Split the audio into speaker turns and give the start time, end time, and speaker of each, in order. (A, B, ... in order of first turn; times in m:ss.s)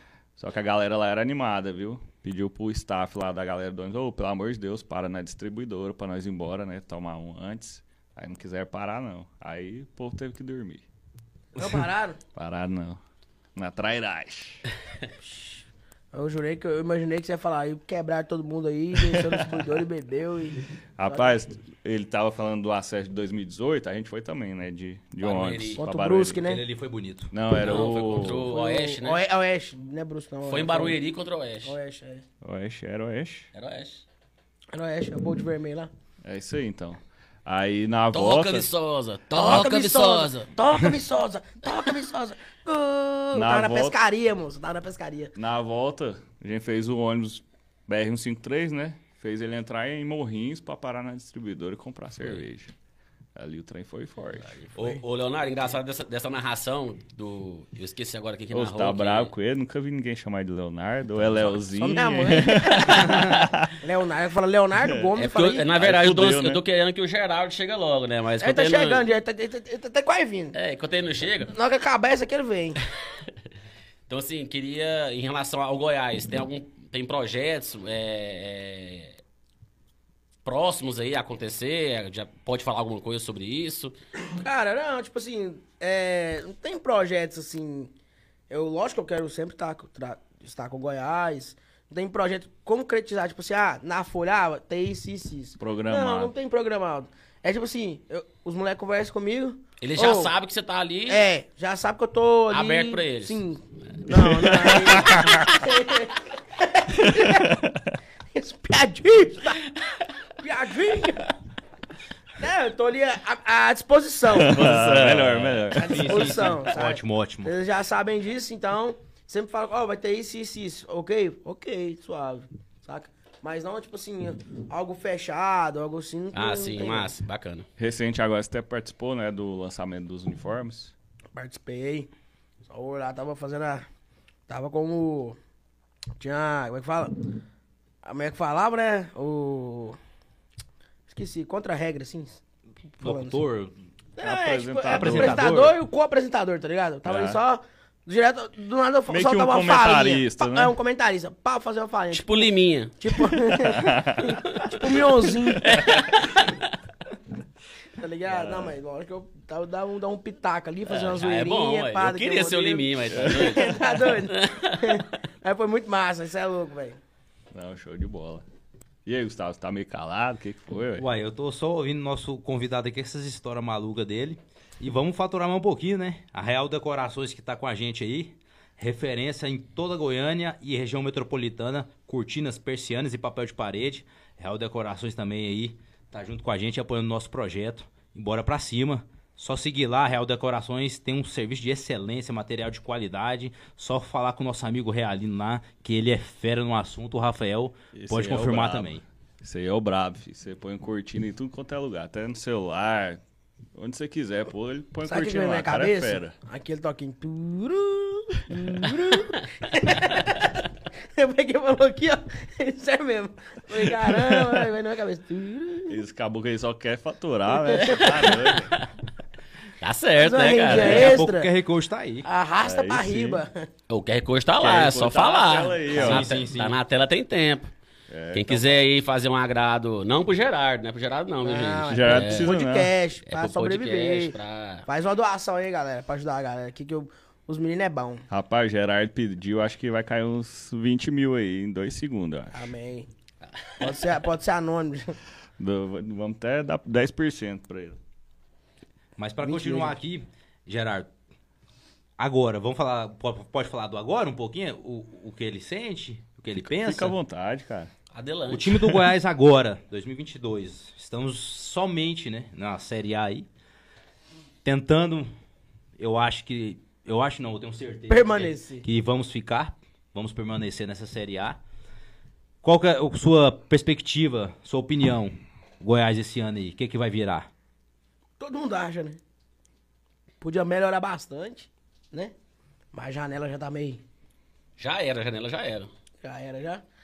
0:00.4-0:10.8 A
0:11.6-0:12.2 B
0:12.3-0:13.0 A
0:13.6-0:14.6 A
0:15.2-0:21.4 B
0:19.1-0:19.7 A
0:21.0-0:26.4 A
0:25.2-0:25.8 C
0:25.7-0:26.6 B
0:26.4-0:27.3 D
0:27.3-0:28.5 A
0:27.5-0:29.2 C
0:27.6-0:31.0 B
0:30.4-0:31.7 C
0:31.6-0:32.2 B
0:32.4-0:33.5 A
0:33.5-0:34.0 C
0:34.7-0:35.9 B
0:36.2-0:38.7 A
0:38.1-0:40.5 C
0:39.3-0:45.3 B
0:43.3-0:44.0 A
0:45.3-0:52.7 A
0:53.4-0:54.6 A
0:54.7-0:59.3 C
0:54.7-0:55.0 B
0:58.5-1:03.7 A
1:01.2-1:01.6 C
1:01.7-1:03.2 B
1:02.7-1:03.5 C
1:03.8-1:05.7 B
1:05.2-1:09.0 C
1:05.7-1:06.6 A
1:08.4-1:10.6 B
1:10.5-1:11.5 C
1:11.5-1:12.8 B
1:14.1-1:19.2 C
1:20.4-1:23.9 C
1:24.3-1:27.9 B
1:28.5-1:40.3 B
1:35.6-1:36.3 A
1:39.8-1:41.2 C
1:41.1-1:47.6 B
1:42.5-1:43.4 C
1:44.1-1:45.6 A
1:47.0-1:47.8 A
1:48.3-1:49.6 B
1:50.4-1:51.3 B
1:52.4-1:54.8 B
1:54.3-1:56.5 A
1:54.5-1:55.5 C
1:54.6-1:57.5 D
1:55.7-2:07.1 B
2:06.3-2:07.7 C
2:07.8-2:10.9 A
2:11.3-2:12.1 B
2:12.6-2:13.8 B
2:14.5-2:15.4 B
2:16.2-2:17.2 B
2:18.0-2:20.0 B
2:21.1-2:22.4 B
2:23.0-2:23.4 B
2:23.0-2:23.7 D
2:24.2-2:35.9 B
2:24.2-2:25.5 A
2:24.9-2:25.8 D
2:27.0-2:27.4 A
2:29.1-2:30.7 A
2:32.1-2:33.2 C
2:33.5-2:34.4 A
2:35.6-2:36.7 C
2:38.0-2:47.0 B
2:38.2-2:38.7 A
2:40.9-2:45.0 C
2:43.1-2:43.5 A
2:47.5-2:48.4 A
2:49.0-2:51.1 A
2:51.0-3:19.0 D
3:17.9-3:23.2 A
3:23.8-3:26.3 A
3:25.0-3:30.6 B
3:31.1-3:36.0 B
3:33.9-3:34.7 A
3:35.9-3:38.8 A
3:37.6-3:38.4 B
3:38.0-3:38.9 C
3:39.8-3:41.1 C
3:40.2-3:41.5 B
3:40.7-3:42.2 D
3:42.2-3:43.7 B
3:42.6-3:43.4 A
3:43.9-3:47.7 C
3:44.6-3:46.3 A
3:45.9-3:46.8 D
3:48.1-3:48.8 A
3:48.3-3:52.5 C
3:51.4-3:58.2 B
3:51.9-3:52.9 A
3:53.2-3:54.9 C
3:58.3-4:02.7 A
4:02.5-4:03.1 B
4:03.8-4:05.2 B
4:05.6-4:08.0 A
4:09.2-4:11.1 D
4:09.4-4:09.9 B
4:12.2-4:17.1 D
4:16.6-4:17.9 A
4:18.1-4:18.8 C
4:18.5-4:23.5 D
4:24.6-4:25.3 D
4:26.0-4:31.6 D
4:28.1-4:28.8 B
4:32.6-4:37.5 D
4:38.4-4:39.2 B
4:40.4-4:42.3 B
4:42.9-4:44.0 B
4:44.8-4:45.9 C
4:46.2-4:46.8 B